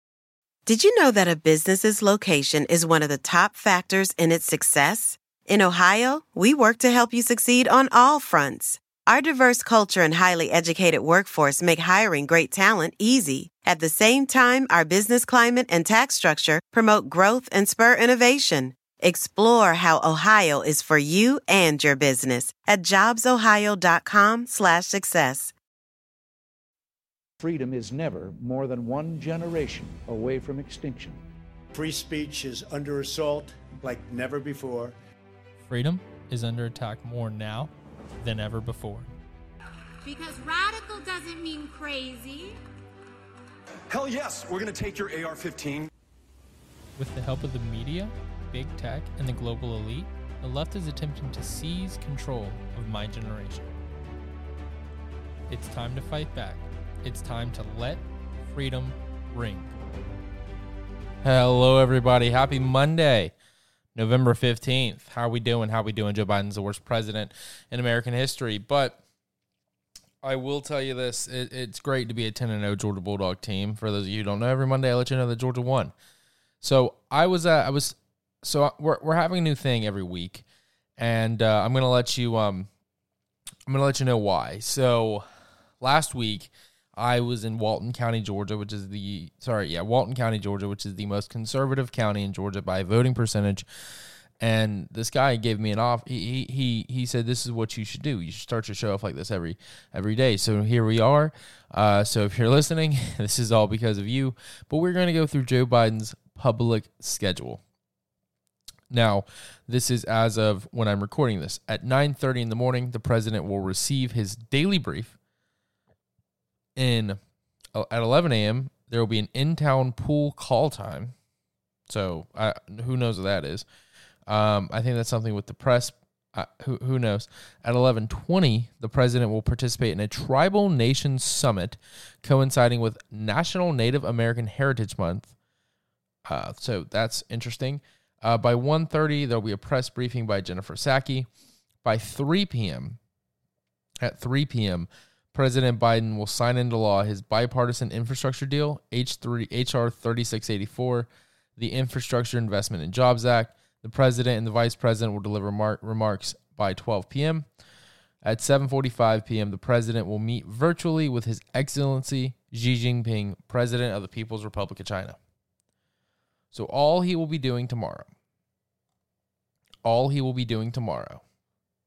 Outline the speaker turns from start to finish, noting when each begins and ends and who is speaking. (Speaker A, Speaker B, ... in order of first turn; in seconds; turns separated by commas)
Speaker A: 0.7-25.5, Speaker B: 27.4-31.2, Speaker C: 31.7-34.9, Speaker D: 35.6-39.1, Speaker E: 40.0-42.6, Speaker F: 43.9-45.9, Speaker D: 47.0-53.7, Speaker D: 55.5-59.7, Speaker D: 61.2-63.3, Speaker D: 63.9-69.0, Speaker D: 70.2-75.9, Speaker D: 76.6-80.4, Speaker D: 81.0-82.7, Speaker D: 83.7-85.2, Speaker D: 85.8-93.7, Speaker D: 94.4-107.6, Speaker D: 108.9-115.2, Speaker D: 116.8-117.2, Speaker D: 117.7-121.1, Speaker D: 121.9-123.7, Speaker D: 124.3-135.3, Speaker D: 136.2-141.3, Speaker D: 141.8-143.0, Speaker D: 144.0-157.4, Speaker D: 158.2-165.2, Speaker D: 166.5-168.1, Speaker D: 169.8-171.2